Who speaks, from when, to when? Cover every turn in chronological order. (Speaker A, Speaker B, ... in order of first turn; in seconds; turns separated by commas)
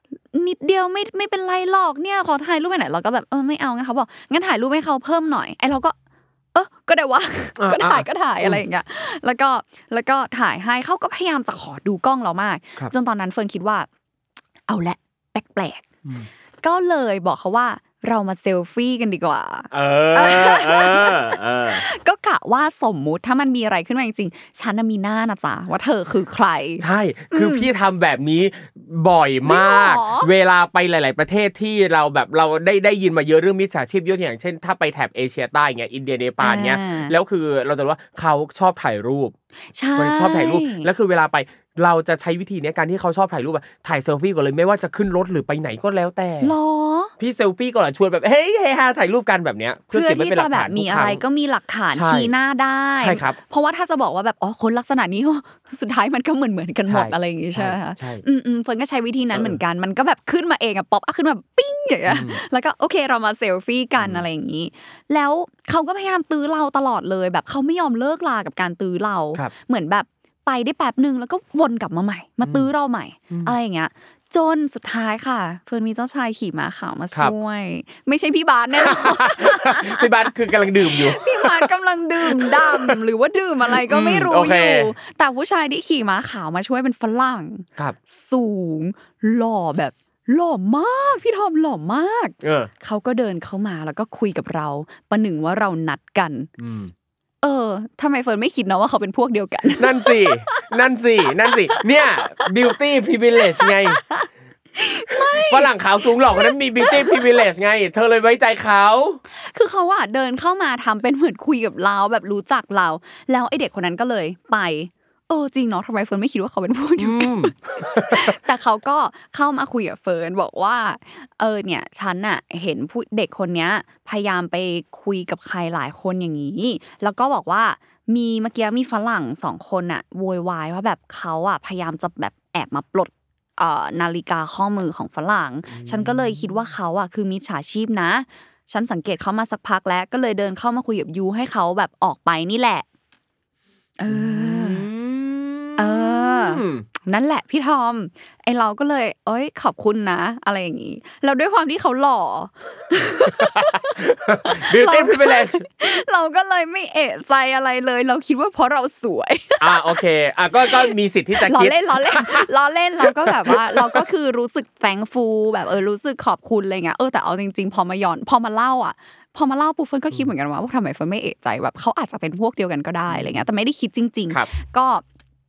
Speaker A: 0.3-6.0, Speaker A: 6.5-13.9, Speaker B: 7.6-8.6, Speaker A: 14.7-15.9, Speaker A: 16.6-27.7, Speaker B: 19.7-21.9, Speaker B: 26.8-39.3, Speaker A: 29.5-30.3, Speaker A: 36.4-37.1, Speaker A: 39.8-40.9, Speaker B: 40.0-46.5, Speaker A: 46.4-47.1, Speaker B: 47.2-51.2, Speaker A: 49.9-80.2, Speaker B: 51.9-52.3, Speaker B: 53.0-53.4, Speaker B: 56.9-58.2, Speaker B: 59.3-59.6, Speaker B: 62.1-62.4, Speaker B: 64.0-64.2, Speaker B: 73.3-73.5, Speaker B: 78.8-81.7, Speaker A: 80.8-96.5, Speaker B: 82.2-83.0, Speaker B: 83.7-84.9, Speaker B: 92.4-92.7, Speaker B: 96.6-96.9, Speaker A: 97.4-100.8, Speaker B: 99.8-104.0, Speaker A: 101.5-102.5, Speaker A: 103.6-105.7, Speaker B: 105.1-109.2, Speaker A: 106.3-107.2, Speaker A: 109.3-142.9, Speaker B: 117.0-118.4, Speaker B: 135.7-136.6, Speaker A: 144.0-144.9, Speaker B: 144.1-146.8, Speaker A: 145.8-153.9, Speaker B: 153.2-155.7, Speaker A: 154.4-160.0, Speaker B: 159.6-162.5, Speaker A: 160.7-175.0, Speaker B: 163.0-164.0, Speaker B: 173.1-173.5